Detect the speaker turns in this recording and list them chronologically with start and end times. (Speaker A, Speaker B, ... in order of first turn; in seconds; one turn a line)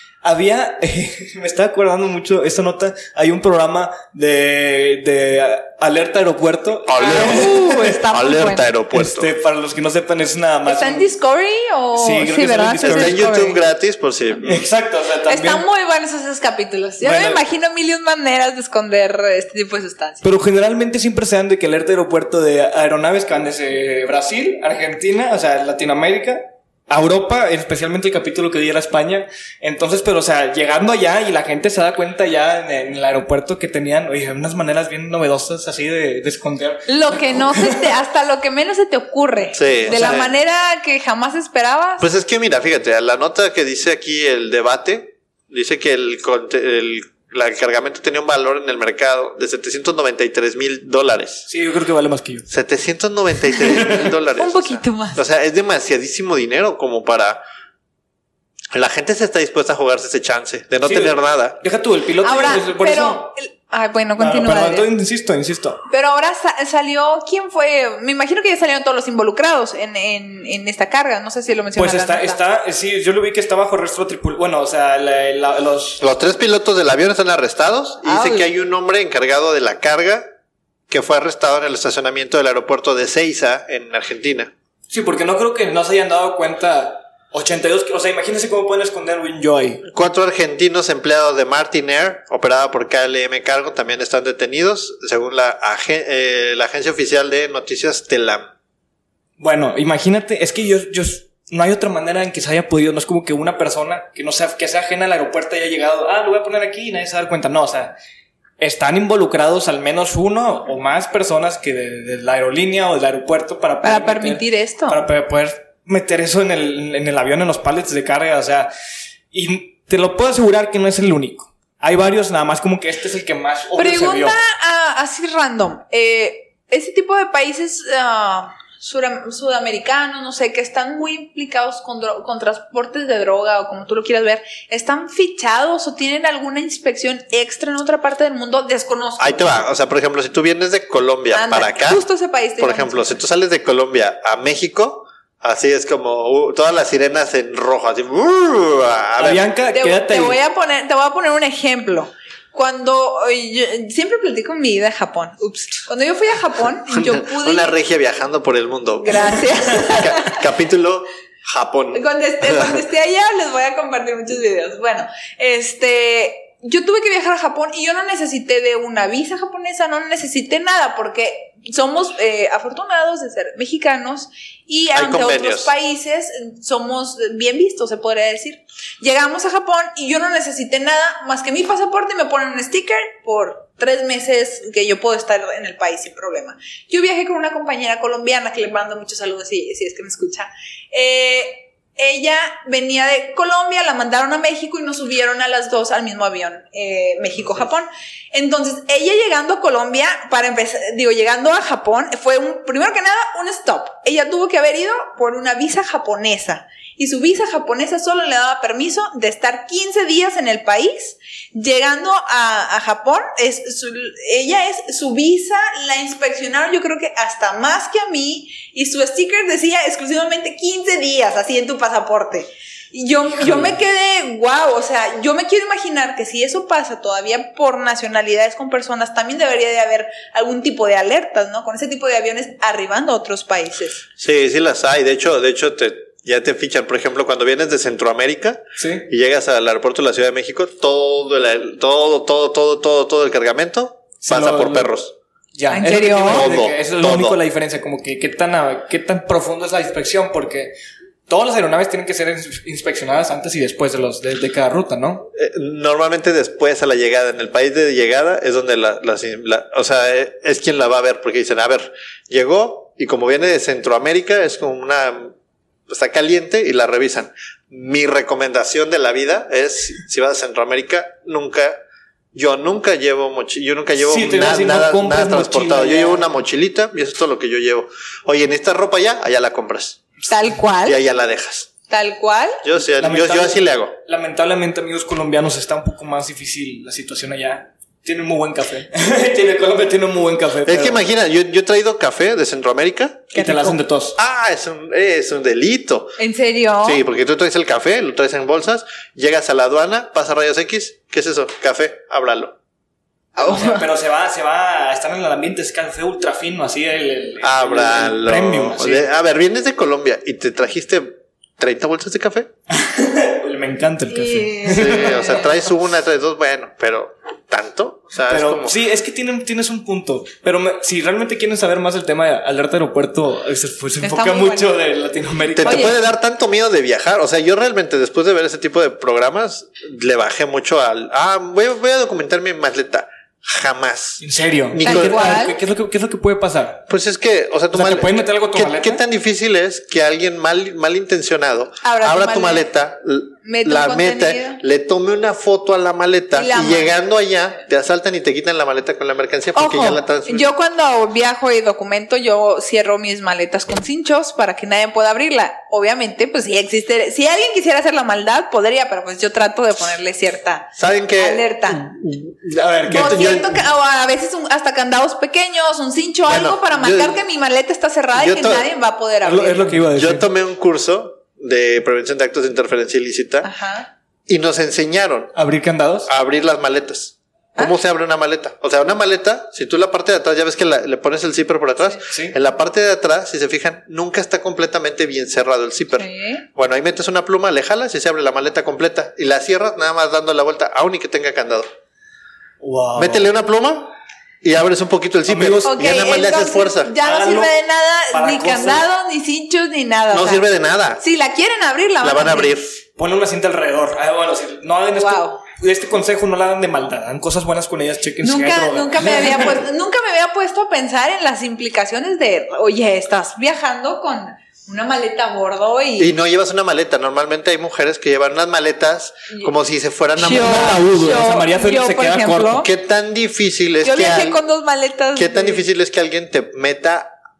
Speaker A: 0.2-8.0
Speaker B: 6.9-9.3
Speaker C: 7.0-8.7
Speaker A: 8.9-11.1
Speaker C: 10.7-13.6
Speaker A: 11.9-13.2
Speaker B: 12.8-14.7
Speaker A: 14.4-15.6
Speaker C: 15.2-20.2
Speaker A: 17.0-17.4
Speaker A: 20.2-37.8
Speaker C: 36.9-42.0
Speaker B: 39.5-40.3
Speaker A: 39.9-40.3
Speaker B: 42.0-51.5
Speaker A: 51.5-52.4
Speaker B: 52.5-57.4
Speaker A: 53.8-54.1
Speaker C: 54.4-55.2
Speaker B: 58.7-61.6
Speaker A: 60.8-63.3
Speaker C: 62.2-64.9
Speaker A: 64.2-65.8
Speaker C: 65.9-72.4
Speaker A: 71.8-76.0
Speaker B: 76.0-80.2
Speaker C: 78.0-78.5
Speaker B: 80.9-84.5
Speaker A: 84.9-89.9
Speaker B: 89.9-98.5
Speaker A: 99.4-107.9
Speaker A: 108.6-118.7
Speaker C: 113.8-115.0
Speaker A: 119.3-124.4
Speaker C: 123.8-139.5
Speaker B: 139.2-142.1
Speaker C: 141.3-143.2
Speaker B: 142.6-149.5
Speaker A: 149.2-150.4
Speaker C: 149.7-157.7
Speaker B: 156.9-162.8
Speaker C: 159.0-160.4
Speaker C: 161.9-234.0
Speaker B: 174.9-175.7
Speaker A: 223.4-223.7
Speaker B: 234.2-245.1
Speaker A: 238.8-239.1
Speaker A: 244.2-244.9
Speaker A: 245.6-250.7
Speaker C: 245.7-246.5
Speaker B: 246.2-247.4
Speaker A: 251.3-255.3
Speaker B: 255.3-265.3
Speaker B: 265.9-271.8
Speaker B: 272.3-280.0
Speaker A: 274.0-276.3
Speaker C: 280.3-281.0
Speaker B: 280.8-281.7
Speaker C: 281.9-282.6
Speaker B: 282.6-283.9
Speaker A: 283.0-291.0
Speaker B: 290.6-293.3
Speaker C: 293.3-293.8
Speaker A: 293.3-294.1
Speaker B: 294.2-296.1
Speaker C: 296.2-297.0
Speaker B: 296.8-302.5
Speaker C: 303.4-303.9
Speaker A: 303.4-309.1
Speaker B: 307.4-312.5
Speaker A: 312.7-315.4
Speaker C: 314.1-315.4
Speaker B: 314.7-318.8
Speaker A: 318.3-326.0
Speaker C: 324.0-324.8
Speaker B: 325.6-335.4
Speaker C: 325.6-325.9
Speaker A: 334.2-336.8
Speaker C: 334.8-335.6
Speaker B: 336.9-350.5
Speaker A: 337.7-339.0
Speaker C: 341.8-342.7
Speaker C: 343.4-344.6
Speaker C: 346.3-346.9
Speaker C: 349.5-361.9
Speaker B: 360.8-363.5
Speaker A: 362.6-363.2
Speaker C: 362.9-369.7
Speaker B: 366.3-367.2
Speaker B: 368.1-368.7
Speaker A: 369.2-370.2
Speaker B: 369.9-373.5
Speaker C: 373.4-373.9
Speaker B: 374.3-375.3
Speaker A: 375.3-376.1
Speaker B: 376.1-391.7
Speaker A: 382.1-382.4
Speaker C: 385.9-386.4
Speaker A: 392.6-393.3
Speaker B: 393.0-393.9
Speaker B: 394.4-396.9
Speaker A: 395.2-395.7
Speaker C: 395.6-400.5
Speaker A: 397.0-397.6
Speaker A: 398.1-398.9
Speaker B: 400.1-401.0
Speaker C: 401.0-402.5
Speaker B: 402.0-402.8
Speaker A: 403.0-409.6
Speaker C: 404.9-405.4
Speaker C: 408.2-416.1
Speaker B: 416.0-420.9
Speaker C: 420.2-422.7
Speaker A: 420.3-422.6
Speaker B: 422.6-424.4
Speaker C: 423.8-425.6
Speaker B: 425.1-427.1